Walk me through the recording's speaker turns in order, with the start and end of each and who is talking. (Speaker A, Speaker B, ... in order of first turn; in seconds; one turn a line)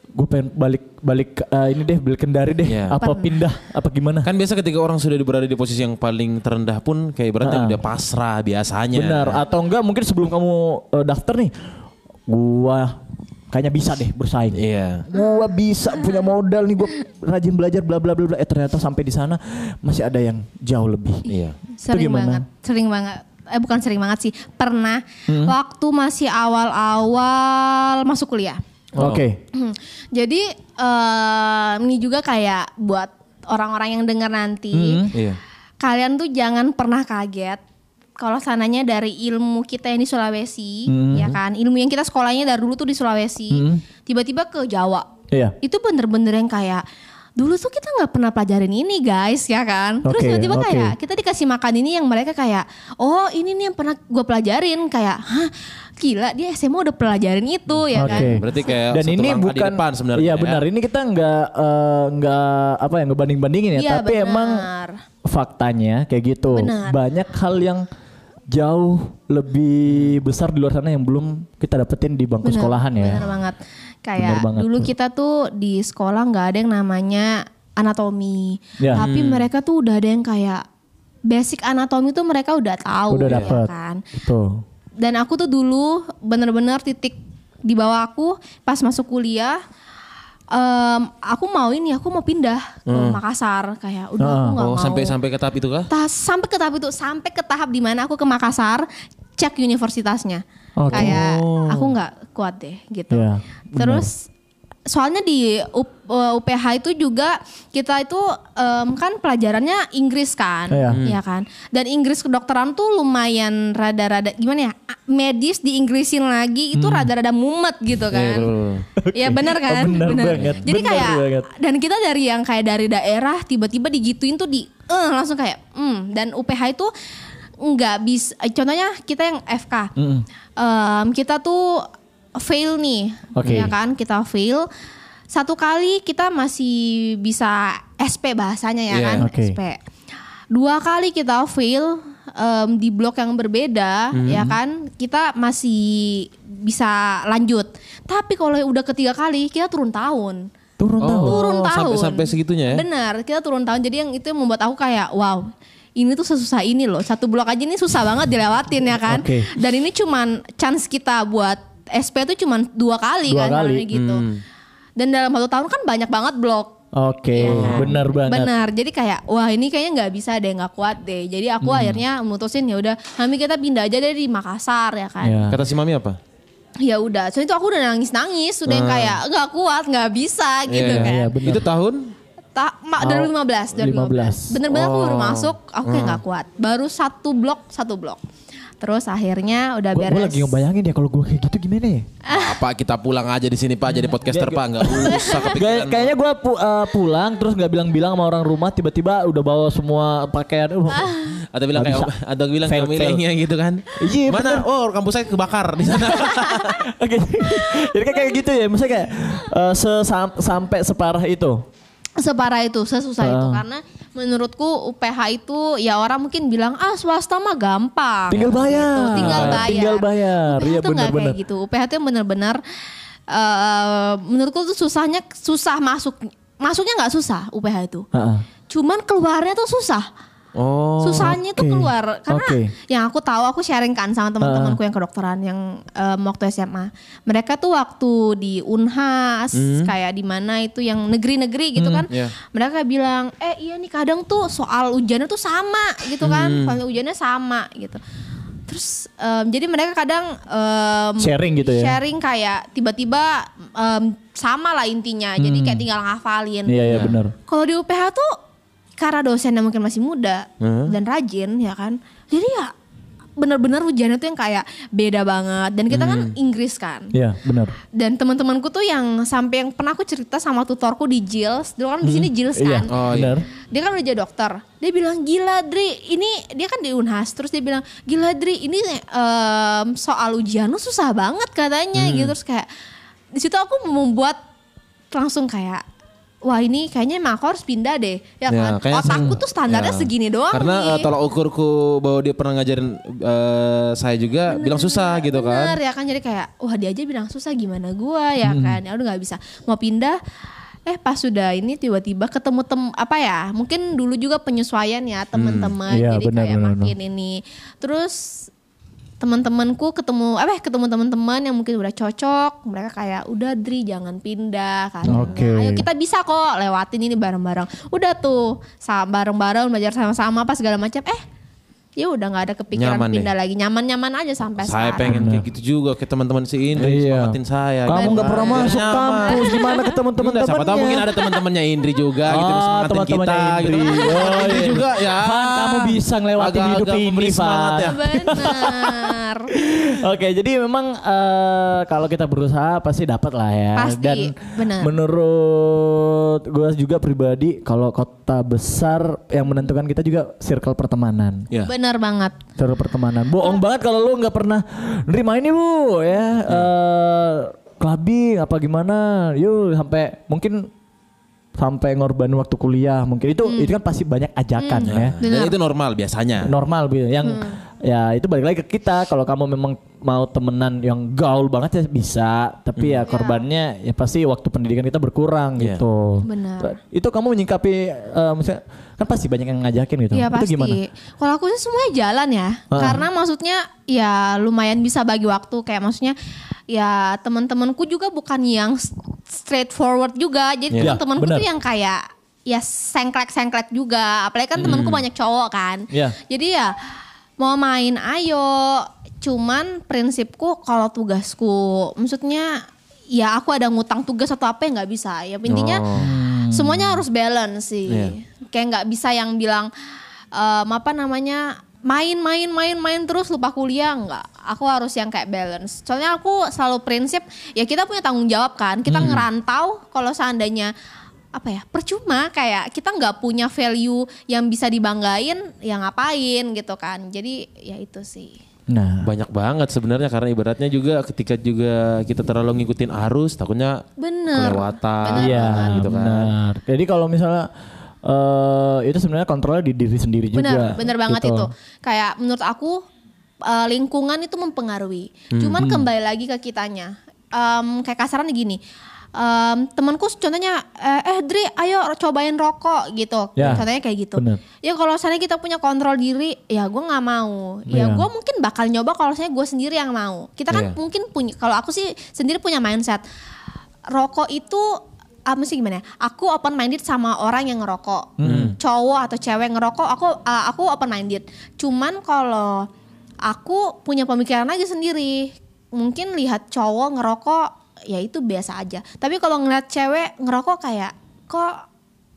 Speaker A: 0.1-4.3
Speaker B: 2.6-3.0
Speaker C: 3.0-3.4
Speaker B: 4.2-9.4
Speaker A: 7.4-7.8
Speaker A: 8.9-11.5
Speaker A: 12.3-13.0
Speaker A: 13.5-21.3
Speaker B: 14.5-15.1
Speaker B: 21.3-21.6
Speaker C: 21.8-28.6
Speaker A: 21.9-22.4
Speaker A: 25.3-25.6
Speaker B: 29.0-29.2
Speaker A: 29.0-29.4
Speaker C: 29.5-35.1
Speaker A: 34.7-35.1
Speaker B: 35.1-35.4
Speaker C: 35.8-37.6
Speaker C: 38.2-45.1
Speaker A: 40.9-41.4
Speaker A: 43.5-43.8
Speaker A: 45.3-45.5
Speaker C: 45.6-46.8
Speaker C: 47.4-58.5
Speaker A: 50.0-51.0
Speaker B: 57.9-60.6
Speaker A: 58.0-64.7
Speaker C: 63.8-65.0
Speaker A: 65.3-67.8
Speaker C: 66.5-67.0
Speaker A: 68.5-73.3
Speaker C: 72.4-80.6
Speaker A: 74.2-74.9
Speaker A: 78.8-79.1
Speaker B: 78.9-79.5
Speaker C: 81.3-84.0
Speaker A: 83.1-84.6
Speaker C: 85.0-89.6
Speaker C: 90.5-95.1
Speaker B: 92.9-93.2
Speaker A: 94.2-94.6
Speaker B: 94.6-95.9
Speaker C: 95.9-98.9
Speaker C: 99.4-104.3
Speaker A: 100.8-101.2
Speaker B: 100.9-101.9
Speaker A: 103.1-104.1
Speaker C: 104.9-118.5
Speaker A: 110.7-111.0
Speaker B: 110.9-111.2
Speaker A: 116.7-117.1
Speaker B: 118.1-118.9
Speaker A: 119.0-121.5
Speaker C: 119.1-126.9
Speaker B: 120.3-120.7
Speaker C: 127.6-129.9
Speaker A: 130.0-130.2
Speaker C: 130.6-134.7
Speaker A: 133.3-133.7
Speaker C: 135.3-139.8
Speaker B: 138.9-139.2
Speaker A: 139.2-139.6
Speaker C: 140.5-150.5
Speaker B: 144.1-144.5
Speaker A: 150.8-151.4
Speaker B: 151.0-152.8
Speaker C: 151.2-164.2
Speaker A: 159.1-159.5
Speaker A: 163.3-163.9
Speaker B: 163.9-164.4
Speaker C: 165.0-166.8
Speaker A: 166.9-168.5
Speaker C: 167.3-175.5
Speaker B: 167.4-167.9
Speaker A: 171.6-172.0
Speaker A: 175.2-175.6
Speaker B: 175.5-176.2
Speaker C: 176.8-181.4
Speaker B: 178.7-179.2
Speaker B: 180.7-182.1
Speaker A: 180.8-181.7
Speaker C: 182.6-188.2
Speaker A: 183.0-184.6
Speaker B: 184.7-186.2
Speaker C: 188.8-190.6
Speaker A: 189.9-192.1
Speaker C: 192.2-192.6
Speaker B: 192.3-196.1
Speaker A: 193.9-201.2
Speaker C: 195.0-195.5
Speaker C: 200.9-201.3
Speaker B: 201.5-206.8
Speaker A: 201.7-202.1
Speaker A: 202.6-203.2
Speaker A: 204.0-204.7
Speaker C: 206.2-206.7
Speaker A: 206.3-211.6
Speaker C: 207.5-208.3
Speaker C: 212.2-222.6
Speaker A: 213.2-213.6
Speaker A: 218.3-221.4
Speaker B: 218.3-219.7
Speaker C: 223.3-228.1
Speaker A: 228.1-228.4
Speaker C: 228.7-230.1
Speaker B: 230.6-231.3
Speaker C: 231.0-248.0
Speaker A: 231.2-232.7
Speaker A: 234.4-234.8
Speaker B: 239.5-239.9
Speaker A: 241.8-242.0
Speaker B: 246.2-246.8
Speaker C: 248.7-256.8
Speaker A: 251.2-252.0
Speaker A: 255.4-255.8
Speaker A: 256.7-257.3
Speaker B: 256.9-257.2
Speaker C: 257.5-258.4
Speaker C: 259.0-262.7
Speaker B: 260.6-260.9
Speaker C: 263.4-267.1
Speaker B: 265.9-266.3
Speaker A: 267.1-267.8
Speaker C: 267.9-272.9
Speaker A: 272.1-273.5
Speaker B: 272.9-273.4
Speaker C: 273.7-282.7
Speaker B: 281.9-282.4
Speaker C: 283.3-284.4
Speaker C: 285.1-285.8
Speaker C: 286.4-291.1
Speaker B: 288.5-295.8
Speaker A: 289.1-289.4
Speaker C: 294.5-300.2
Speaker A: 298.4-298.8
Speaker C: 300.9-308.5
Speaker B: 305.4-305.8
Speaker A: 305.9-306.9
Speaker C: 309.2-321.2
Speaker A: 315.1-315.9
Speaker B: 315.1-315.3
Speaker C: 322.0-325.2
Speaker B: 322.8-323.3
Speaker B: 324.6-338.3
Speaker A: 325.0-325.5
Speaker A: 326.8-331.3
Speaker C: 327.9-330.0
Speaker A: 332.3-351.5
Speaker C: 333.9-334.7
Speaker C: 337.8-339.5
Speaker C: 343.8-344.9
Speaker C: 351.6-352.4
Speaker A: 352.6-360.7
Speaker A: 361.6-365.1
Speaker C: 363.4-363.8
Speaker C: 364.6-365.6
Speaker B: 364.9-366.5
Speaker A: 366.4-380.8
Speaker C: 367.2-367.6
Speaker B: 372.8-373.1
Speaker C: 373.1-373.4
Speaker B: 375.6-375.8
Speaker C: 376.2-376.8
Speaker C: 380.1-386.1
Speaker A: 382.7-383.0
Speaker C: 386.7-405.8
Speaker B: 390.7-391.0
Speaker A: 390.8-391.5
Speaker B: 394.6-395.0
Speaker A: 395.9-396.1
Speaker B: 405.5-406.1
Speaker A: 405.9-407.0
Speaker C: 406.5-409.7
Speaker B: 407.9-408.1
Speaker C: 410.3-420.7
Speaker B: 418.9-419.2
Speaker C: 421.3-428.4
Speaker A: 428.7-429.1
Speaker B: 429.0-436.3
Speaker C: 434.0-435.9
Speaker A: 435.1-437.5
Speaker A: 438.0-441.5
Speaker C: 440.3-442.8
Speaker C: 443.4-448.6
Speaker B: 445.3-445.6
Speaker A: 445.6-445.9
Speaker C: 449.1-463.0
Speaker A: 453.4-454.4
Speaker A: 457.7-458.1
Speaker B: 460.5-460.8
Speaker C: 463.9-472.7
Speaker A: 468.2-468.6
Speaker B: 468.2-468.6
Speaker C: 473.2-481.6